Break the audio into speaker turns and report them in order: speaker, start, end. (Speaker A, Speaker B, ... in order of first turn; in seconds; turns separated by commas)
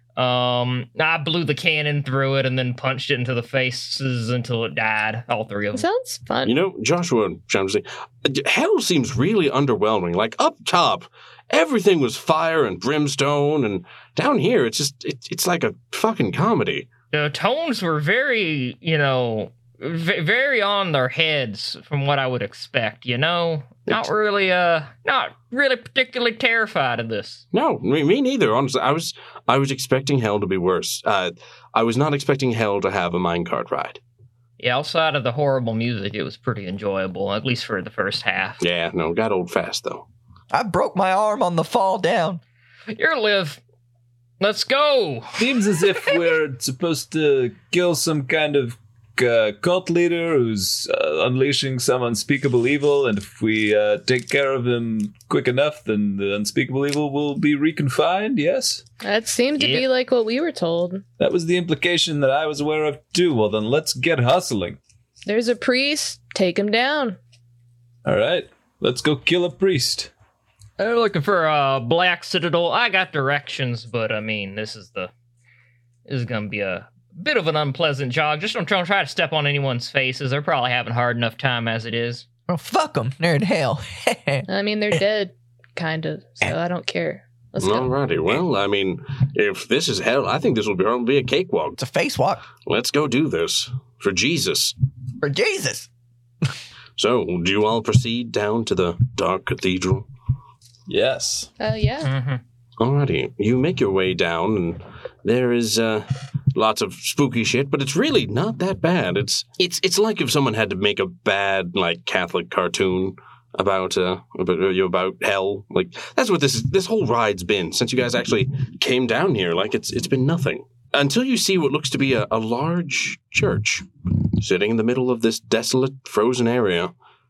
Speaker A: 0.2-5.8, Speaker B: 5.7-6.5, Speaker C: 6.4-16.9, Speaker A: 17.1-27.4, Speaker C: 27.5-34.0, Speaker A: 34.6-38.6, Speaker C: 38.6-40.0, Speaker D: 40.5-42.4, Speaker A: 42.9-43.6, Speaker A: 44.4-45.4, Speaker E: 45.4-58.8, Speaker B: 59.0-61.0, Speaker A: 59.6-59.9, Speaker E: 61.2-64.8, Speaker B: 65.2-67.2, Speaker E: 68.0-70.1, Speaker A: 70.8-75.1, Speaker A: 76.1-82.2, Speaker D: 82.5-84.5, Speaker B: 84.5-87.9, Speaker C: 87.6-91.8, Speaker D: 91.8-92.5, Speaker C: 92.7-94.7, Speaker D: 95.2-95.9, Speaker C: 97.0-100.0, Speaker E: 100.9-101.5, Speaker B: 101.6-102.1, Speaker A: 102.0-102.4, Speaker C: 102.8-126.9